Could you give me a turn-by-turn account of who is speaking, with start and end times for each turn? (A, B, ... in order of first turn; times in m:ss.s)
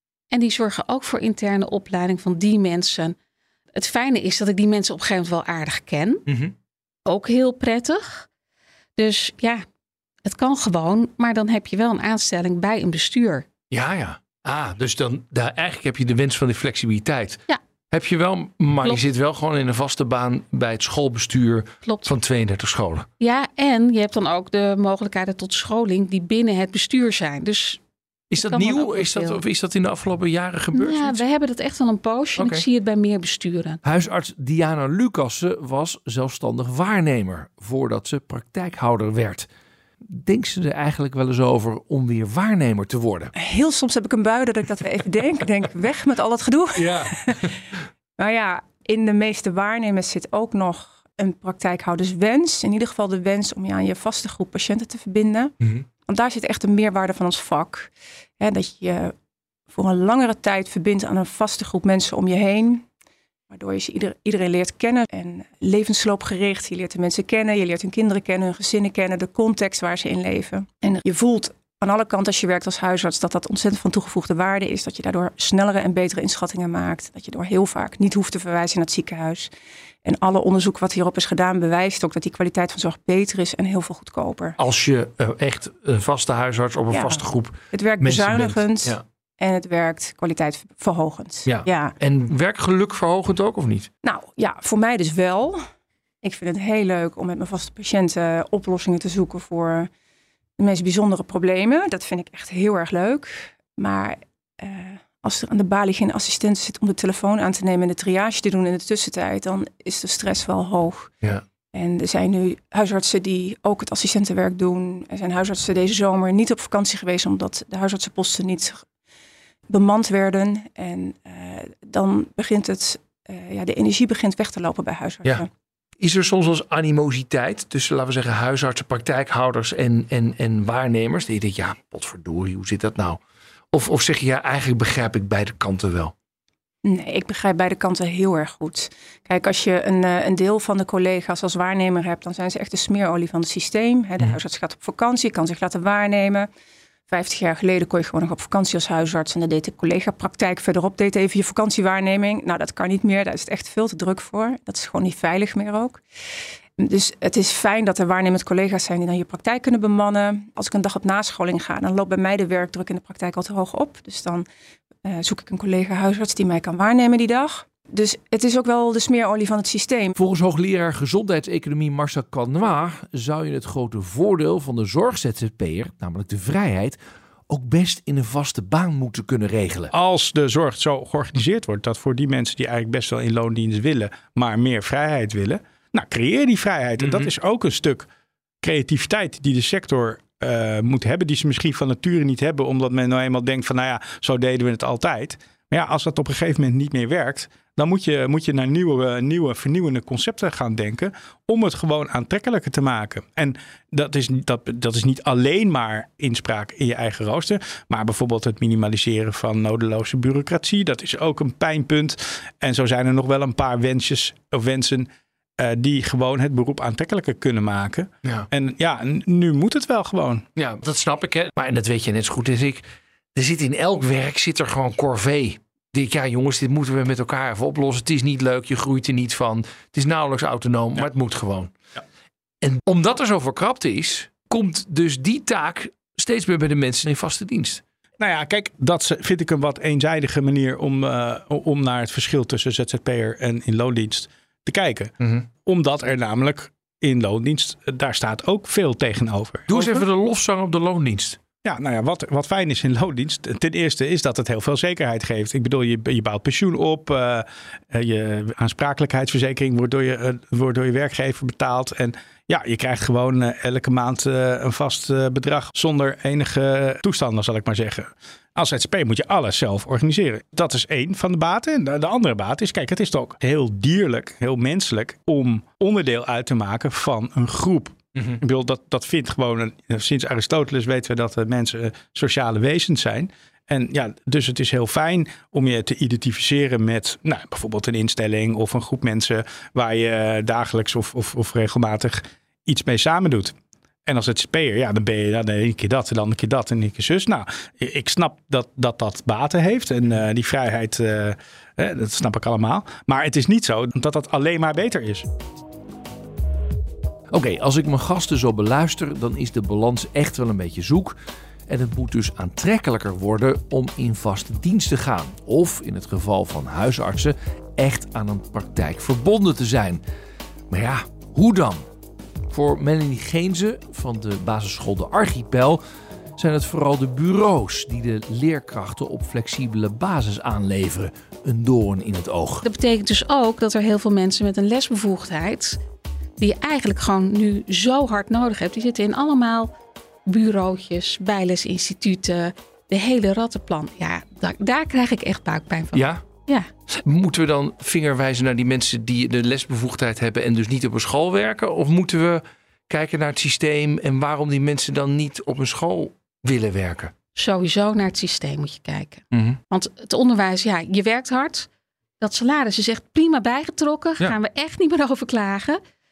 0:00.3-0:03.2 A
0:03.7-0:06.2 A
0:06.3-0:06.5 B
0:07.1-0:08.3 A
0:09.0-0:09.6 A
0:10.2-0:13.5 A
0:13.7-0:23.1 B
0:21.8-0:22.1 A
0:23.2-0:27.8 A
0:28.3-0:31.2 B
0:28.4-0:29.4 A
0:30.8-0:33.8 A
0:32.4-0:32.6 B
0:33.8-0:39.5 B
0:40.1-0:43.3 B
0:43.4-0:47.4 C
0:46.8-0:47.7 B
0:48.2-0:55.5 C
0:56.1-0:59.1 C
0:59.7-1:02.9 C
1:03.5-1:19.5 C
1:20.0-1:24.6 C
1:24.6-1:29.0 B
1:26.9-1:31.9 C
1:31.5-1:33.9 B
1:34.0-1:35.6 C
1:36.2-1:39.9 C
1:40.6-1:51.1 C
1:51.7-1:58.8 C
1:59.7-2:05.5 C
2:06.0-2:13.2 B
2:13.7-2:16.1 B
2:16.8-2:26.5 C
2:27.1-2:36.0 C
2:36.8-2:44.5 C
2:45.0-2:50.2 C
2:50.2-2:57.0 B
2:57.5-2:59.9 B
2:59.9-3:08.1 D
3:07.0-3:07.3 B
3:08.6-3:40.4 D
3:40.6-3:42.8 B
3:43.4-3:51.7 B
3:52.6-3:57.8 B
3:58.2-4:05.1 D
4:05.2-4:05.5 B
4:05.6-4:10.0 D
4:09.7-4:11.4 B
4:11.6-4:53.6 D
4:54.1-5:05.3 D
5:07.3-5:11.2 B
5:11.7-5:20.0 B
5:20.7-5:21.8 B
5:22.5-5:25.8 B
5:26.4-5:32.6 B
5:32.6-5:35.8 A
5:36.4-5:39.7 A
5:40.3-5:46.7 A
5:45.9-5:46.2 B
5:47.0-5:57.1 B
5:57.4-6:01.7 A
5:59.3-5:59.6 B
6:02.2-6:05.8 A